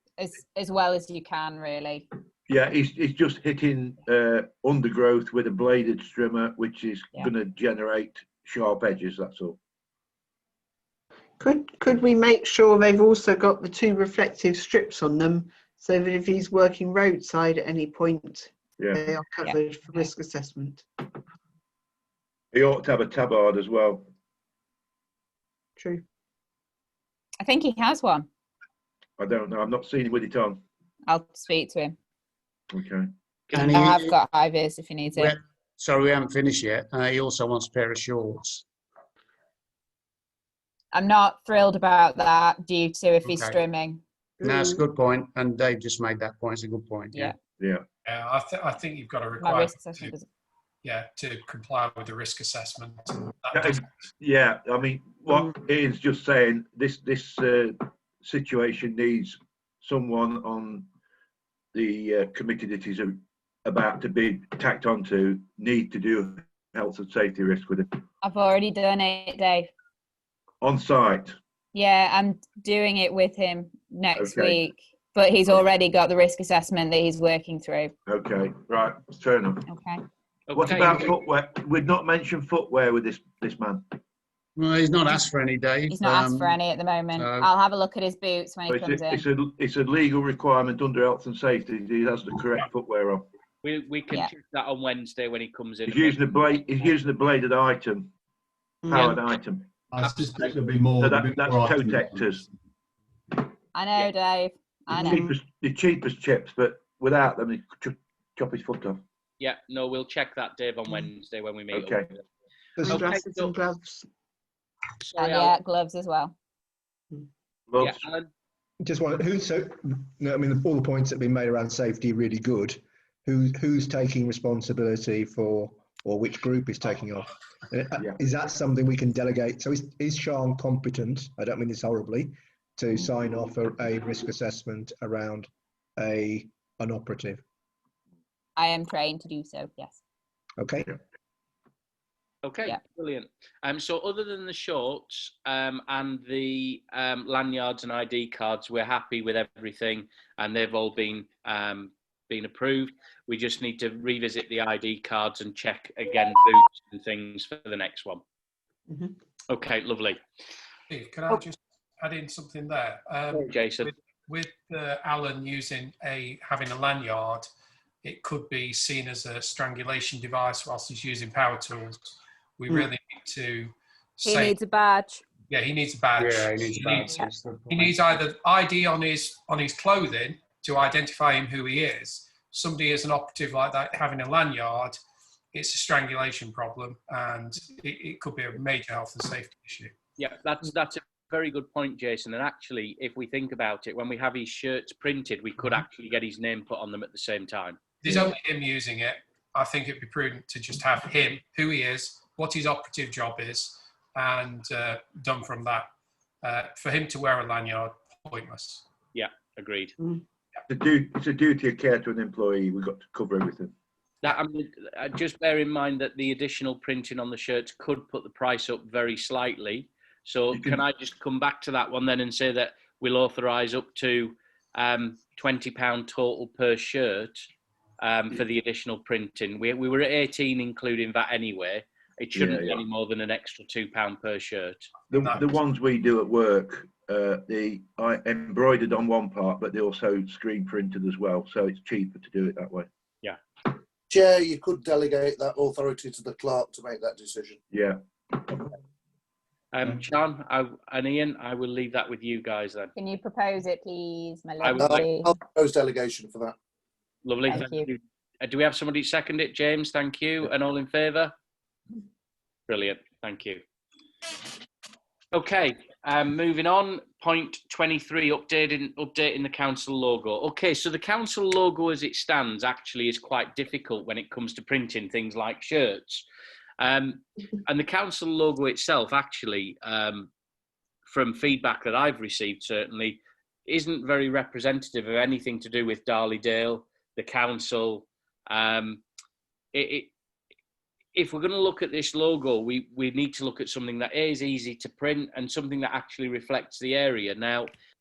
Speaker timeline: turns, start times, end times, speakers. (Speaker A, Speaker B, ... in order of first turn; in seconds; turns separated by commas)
Speaker A: 0.2-2.1, Speaker B: 2.5-9.6, Speaker C: 11.4-20.9, Speaker B: 18.8-19.1, Speaker A: 19.4-20.1, Speaker B: 22.5-24.1, Speaker C: 25.8-26.0, Speaker A: 27.4-28.3, Speaker B: 29.2-30.6, Speaker A: 31.1-31.9, Speaker B: 32.7-33.1, Speaker D: 33.5-34.1, Speaker A: 33.5-35.4, Speaker D: 35.1-38.6, Speaker A: 40.9-44.0, Speaker D: 43.3-43.6, Speaker C: 44.4-44.8, Speaker D: 44.4-47.3, Speaker E: 48.0-50.1, Speaker A: 49.4-50.3, Speaker E: 50.8-53.9, Speaker B: 53.5-60.9, Speaker B: 61.7-68.0, Speaker A: 68.2-69.7, Speaker B: 70.6-71.3, Speaker A: 71.7-77.9, Speaker B: 74.2-74.6, Speaker B: 78.1-79.6, Speaker A: 79.7-80.0, Speaker F: 80.5-81.1, Speaker B: 80.5-84.0, Speaker D: 84.6-86.6, Speaker A: 85.9-89.2, Speaker D: 87.2-87.5, Speaker B: 88.7-93.2, Speaker F: 93.6-96.9, Speaker B: 95.9-98.1, Speaker C: 98.8-99.2, Speaker B: 98.9-99.7, Speaker G: 99.9-102.2, Speaker F: 100.0-100.5, Speaker B: 101.0-102.5, Speaker A: 103.7-105.2, Speaker B: 104.9-109.0, Speaker C: 105.0-105.3, Speaker F: 109.4-112.1, Speaker B: 111.7-112.0, Speaker C: 112.8-114.1, Speaker F: 112.8-113.5, Speaker F: 115.0-115.6, Speaker A: 115.2-116.3, Speaker B: 117.7-118.0, Speaker F: 117.8-118.3, Speaker H: 118.8-137.4, Speaker A: 138.6-140.0, Speaker H: 140.6-140.9, Speaker F: 142.4-158.2, Speaker C: 158.9-159.1, Speaker F: 159.5-160.2, Speaker E: 160.9-167.5, Speaker F: 163.3-163.9, Speaker E: 168.0-174.6, Speaker A: 174.2-175.2, Speaker E: 175.5-185.0, Speaker D: 176.2-178.0, Speaker E: 185.5-189.9, Speaker F: 190.2-197.8, Speaker E: 198.0-205.9, Speaker E: 206.4-208.8, Speaker F: 209.1-209.9, Speaker B: 210.7-213.7, Speaker F: 214.2-227.4, Speaker B: 220.5-220.8, Speaker F: 228.0-234.9, Speaker B: 232.3-232.8, Speaker B: 235.1-242.9, Speaker E: 235.1-235.5, Speaker I: 244.1-247.6, Speaker B: 247.7-248.6, Speaker F: 249.7-252.9, Speaker A: 252.9-255.3, Speaker F: 254.6-255.0, Speaker I: 254.8-256.6, Speaker F: 257.2-261.3, Speaker A: 257.5-257.9, Speaker F: 262.7-263.6, Speaker F: 265.3-276.2, Speaker F: 276.8-280.3, Speaker F: 281.1-289.0, Speaker F: 289.7-290.1, Speaker F: 291.1-297.7